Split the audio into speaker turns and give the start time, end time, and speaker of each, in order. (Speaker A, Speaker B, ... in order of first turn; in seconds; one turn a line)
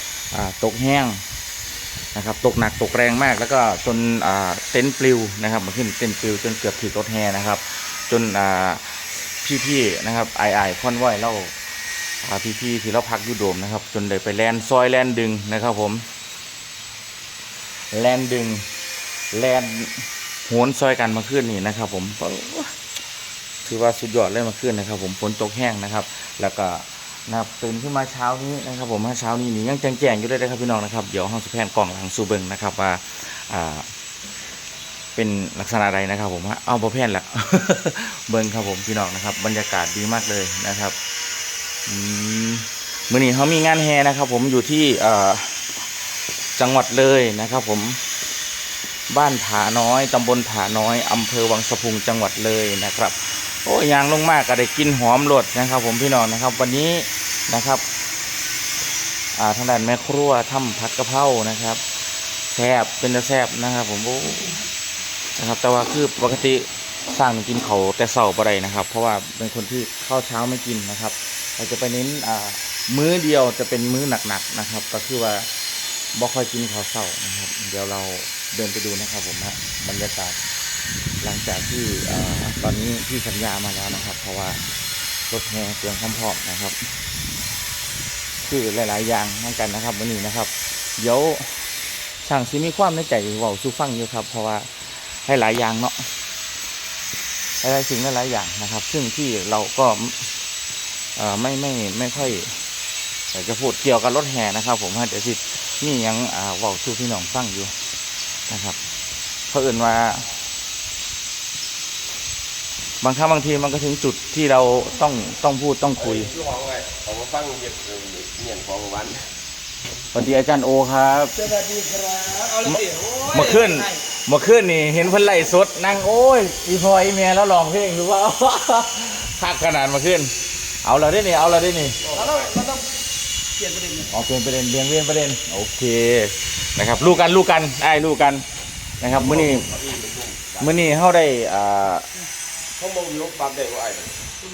Speaker A: 0.3-1.2
Speaker A: 2.1-11.5
Speaker A: 12.2-16.1
Speaker A: 17.9-18.6
Speaker A: 19.3-22.7
Speaker A: 23.6-33.9
Speaker A: 35.1-41.0
Speaker A: 41.9-45.6
Speaker A: 46.5-48.0
Speaker A: 49.1-57.8
Speaker A: 59.4-61.8
Speaker A: 62.5-64.6
Speaker A: 65.3-75.5
Speaker A: 76.1-80.4
Speaker A: 81.2-84.7
Speaker A: 85.3-86.8
Speaker A: 88.4-91.7
Speaker A: 92.2-96.1
Speaker A: 97.6-100.3
Speaker A: 101.2-102.5
Speaker A: 103.3-107.7
Speaker A: 108.5-108.8
Speaker A: 109.5-110.2
Speaker A: 113.0-116.3
Speaker B: 116.1-119.3
Speaker A: 120.1-121.4
Speaker C: 121.4-124.0
Speaker A: 122.7-132.0
Speaker C: 132.1-132.9
Speaker B: 132.1-132.4
Speaker C: 133.6-134.1
Speaker A: 134.1-138.4
Speaker A: 139.0-139.7
Speaker B: 139.2-140.7
Speaker A: 140.6-142.1
Speaker B: 142.8-144.3